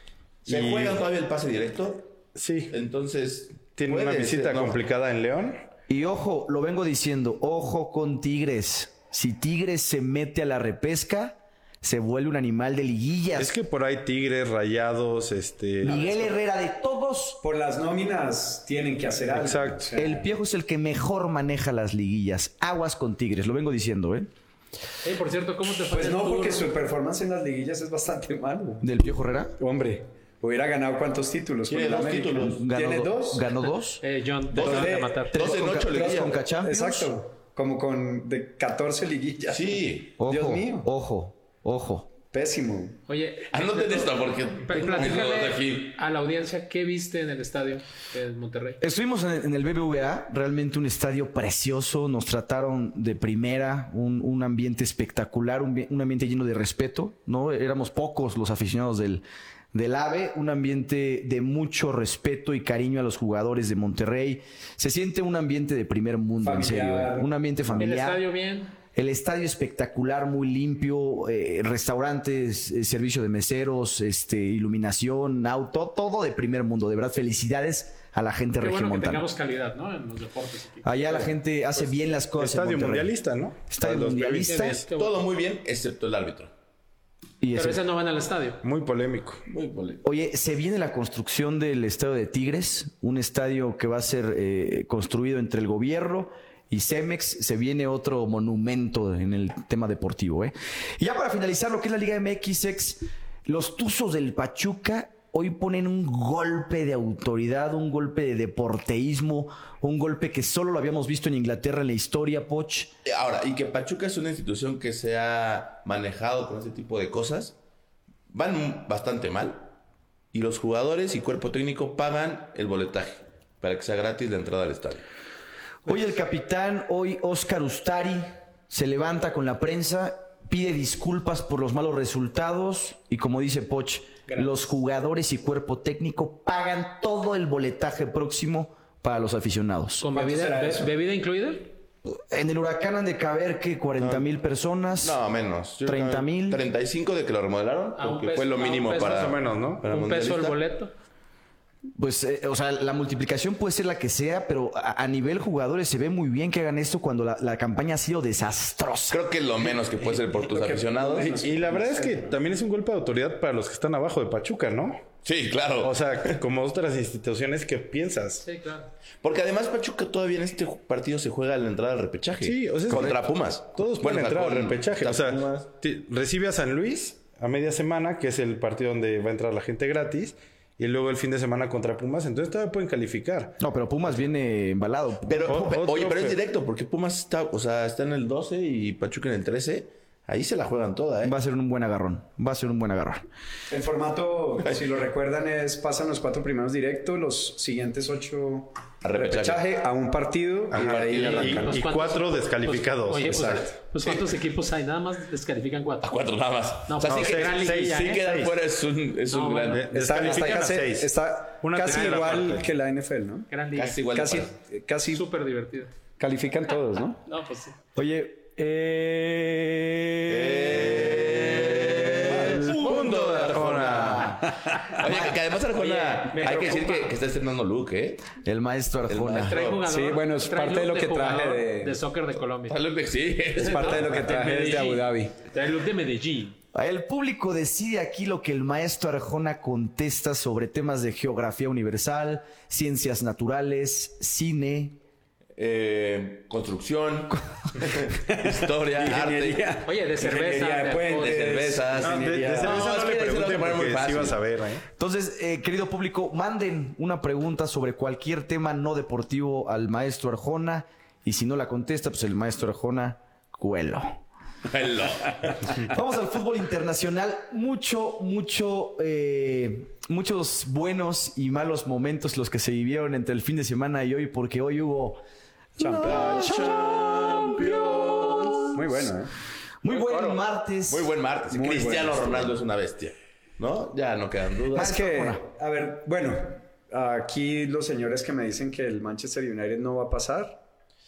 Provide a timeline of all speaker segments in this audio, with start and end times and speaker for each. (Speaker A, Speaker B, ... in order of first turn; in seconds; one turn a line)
Speaker A: 0.5-2.2
Speaker B: 0.5-1.0
Speaker B: 2.4-2.7
Speaker A: 2.7-4.8
Speaker B: 3.8-5.6
Speaker C: 5.9-13.5
Speaker B: 13.4-16.2
Speaker C: 15.8-17.4
Speaker D: 17.4-20.2
Speaker B: 19.3-19.9
Speaker C: 20.0-24.3
Speaker E: 25.0-26.7
Speaker D: 25.9-28.9
Speaker C: 28.8-29.5
Speaker D: 29.6-33.5
Speaker A: 31.7-32.6
Speaker C: 32.4-34.0
Speaker E: 34.0-35.4
Speaker A: 34.5-36.4
Speaker D: 34.5-40.9
Speaker C: 35.3-37.1
Speaker A: 39.5-40.1
Speaker C: 40.2-42.1
Speaker D: 42.2-43.0
Speaker E: 43.1-48.8
Speaker A: 43.5-46.0
Speaker C: 48.8-68.2
Speaker D: 66.4-67.3
Speaker E: 67.8-68.7
Speaker C: 69.0-79.2
Speaker E: 78.6-81.3
Speaker C: 80.8-83.1
Speaker B: 82.4-84.8
Speaker C: 83.7-84.8
Speaker E: 84.2-85.2
Speaker A: 84.9-86.5
Speaker C: 87.4-87.8
Speaker E: 87.5-88.6
Speaker B: 88.6-89.4
Speaker A: 89.5-90.0
Speaker C: 90.0-112.9
Speaker A: 113.0-117.5
Speaker A: 118.3-119.7
Speaker A: 120.3-125.0
Speaker C: 125.8-140.0
Speaker E: 134.3-134.6
Speaker E: 140.0-141.7
Speaker D: 140.1-140.9
Speaker C: 142.1-145.2
Speaker A: 144.0-144.3
Speaker A: 145.0-150.6
Speaker C: 145.8-146.6
Speaker E: 148.0-149.3
Speaker B: 148.9-149.8
Speaker E: 149.8-150.9
Speaker C: 152.0-159.2
Speaker A: 159.1-161.4
Speaker D: 160.2-162.4
Speaker B: 161.4-165.1
Speaker A: 165.2-166.4
Speaker B: 165.8-168.4
Speaker E: 168.4-168.9
Speaker A: 169.2-175.7
Speaker B: 172.4-183.6
Speaker C: 172.9-173.2
Speaker C: 183.6-185.7
Speaker A: 185.3-191.3
Speaker B: 185.5-186.4
Speaker C: 191.2-193.2
Speaker D: 193.7-201.9
Speaker A: 199.0-199.6
Speaker B: 200.7-203.7
Speaker A: 200.7-201.7
Speaker E: 201.2-206.2
Speaker A: 206.0-209.9
Speaker E: 206.9-208.3
Speaker B: 207.1-208.5
Speaker E: 209.3-209.9
Speaker B: 209.7-212.7
Speaker D: 209.9-213.5
Speaker E: 211.9-212.4
Speaker E: 213.5-214.0
Speaker A: 213.8-214.6
Speaker D: 214.1-215.2
Speaker E: 215.1-215.9
Speaker D: 216.2-217.2
Speaker E: 217.3-217.8
Speaker C: 217.9-222.7
Speaker A: 220.3-228.3
Speaker B: 220.9-221.2
Speaker B: 222.2-224.5
Speaker C: 223.8-224.4
Speaker D: 224.4-225.0
Speaker C: 225.0-225.3
Speaker E: 225.8-227.1
Speaker C: 228.4-229.6
Speaker A: 229.1-229.8
Speaker E: 229.4-232.8
Speaker D: 229.8-232.0
Speaker A: 232.7-234.2
Speaker E: 233.6-236.6
Speaker D: 233.6-235.3
Speaker C: 236.7-245.0
Speaker A: 245.6-249.8
Speaker D: 248.1-252.9
Speaker E: 249.8-251.6
Speaker A: 251.1-254.4
Speaker B: 252.0-254.8
Speaker C: 254.9-264.2
Speaker A: 264.7-265.9
Speaker C: 265.8-275.2
Speaker C: 275.8-278.8
Speaker D: 275.8-276.6
Speaker A: 276.0-278.7
Speaker D: 278.7-279.3
Speaker C: 279.8-281.1
Speaker A: 279.9-285.0
Speaker D: 281.5-282.5
Speaker C: 284.7-285.4
Speaker D: 284.8-290.6